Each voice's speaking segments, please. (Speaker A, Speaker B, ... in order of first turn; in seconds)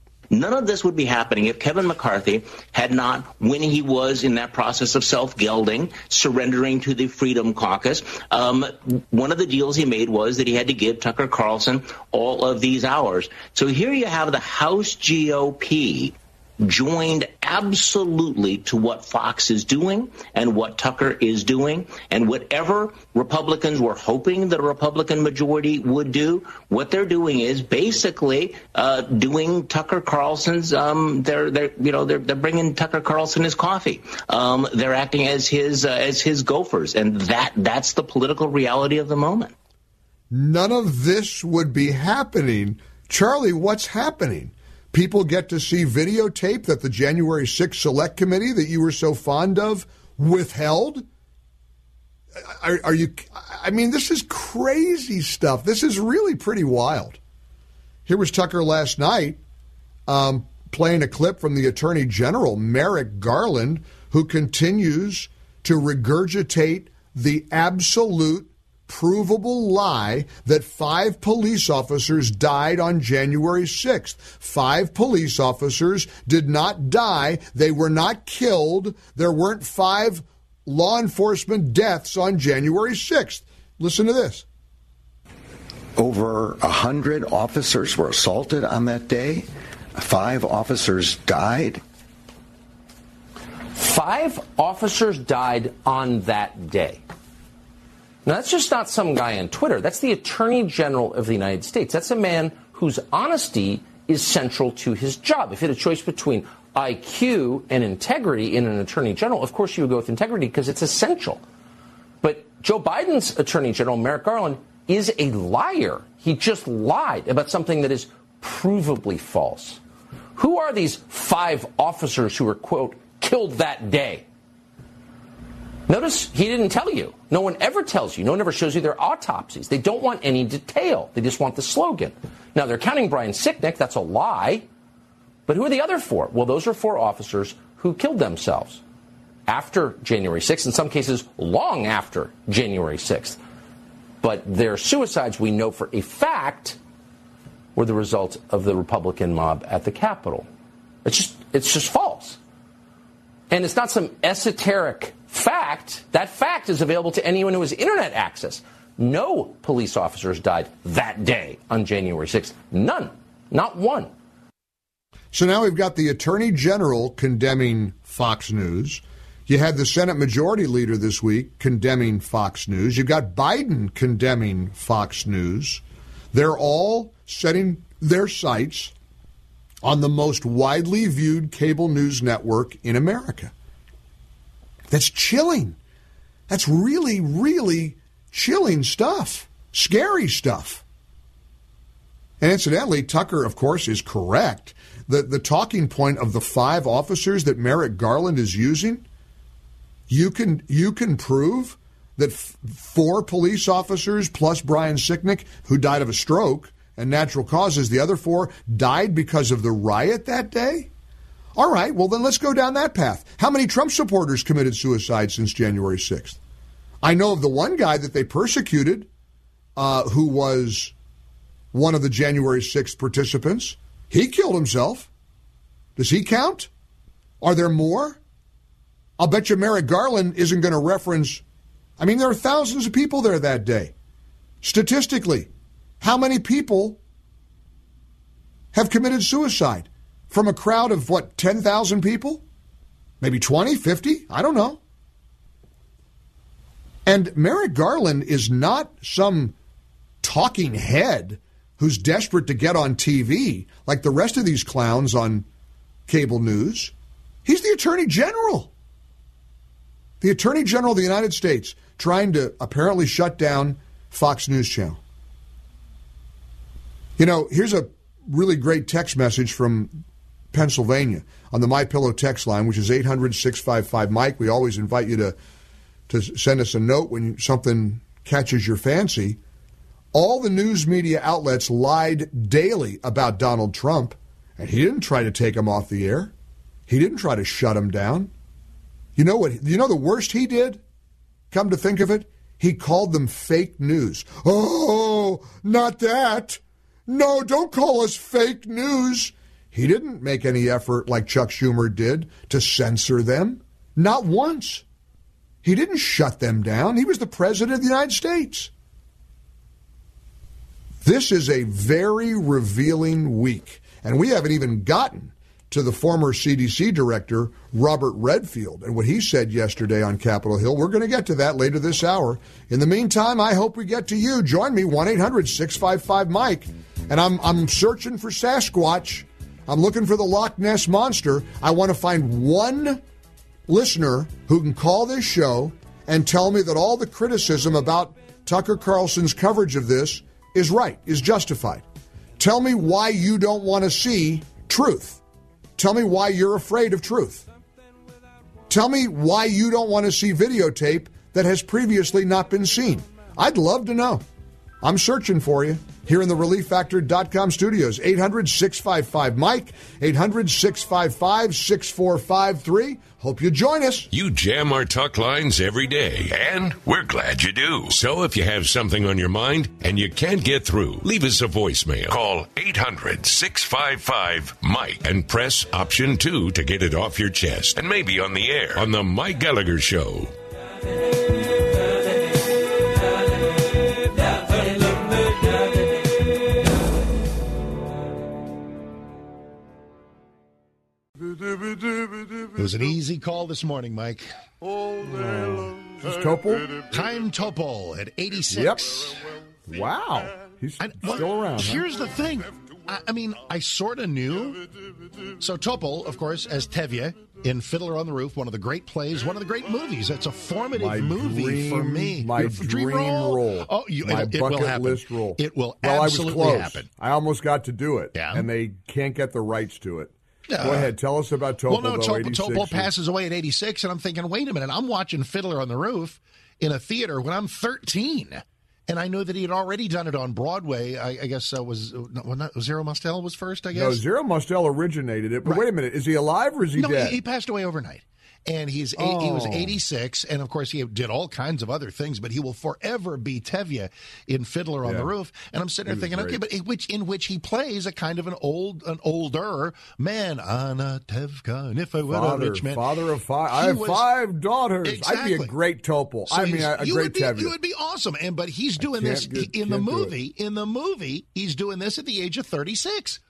Speaker A: 0.3-39.5
Speaker B: 40.3-51.1, 52.4-57.2, 58.1-59.4, 60.1-84.5, 165.3-175.8, 176.3-178.9, 179.8-183.5, 184.9-185.8, 186.5-190.8, 192.4-199.1, 200.1-210.9, 211.6-216.4, 217.0-219.1, 219.8-220.9, 221.7-225.1, 226.0-226.7, 227.4-228.2, 229.2-231.4, 232.0-233.9, 234.6-235.5, 236.0-237.0, 238.7-242.4, 243.2-244.8, 247.1-249.6, 250.2-255.5, 256.1-256.9, 257.4-258.7, 260.2-265.0, 267.2-270.0, 270.5-275.4, 276.1-279.4, 280.1-286.3, 286.9-288.3, 289.2-290.8, 291.5-304.8, 305.6-308.7, 311.0-333.0, 333.7-341.9, 342.4-345.2, 345.8-347.5, 348.7-354.2, 354.8-364.1, 395.0-396.8, 398.5-401.8, 410.8-422.9, 433.7-437.2, 439.0-439.8, 444.8-445.1, 445.9-446.4, 452.1-457.5, 458.8-460.1
Speaker C: 86.0-91.8
Speaker D: 93.8-97.0, 98.2-111.4, 112.2-119.8, 120.4-124.2, 125.9-134.7, 135.5-138.8, 139.5-143.4, 144.2-146.8, 147.8-150.5, 151.1-152.4, 153.5-164.1
Speaker E: 364.1-380.3
Speaker F: 392.6-394.3, 396.9-398.9, 400.8-404.6, 405.4-416.9, 418.1-418.5, 420.5-420.9, 421.7-434.0, 436.8-452.8, 453.5-454.1, 454.8-455.5, 456.3-463.2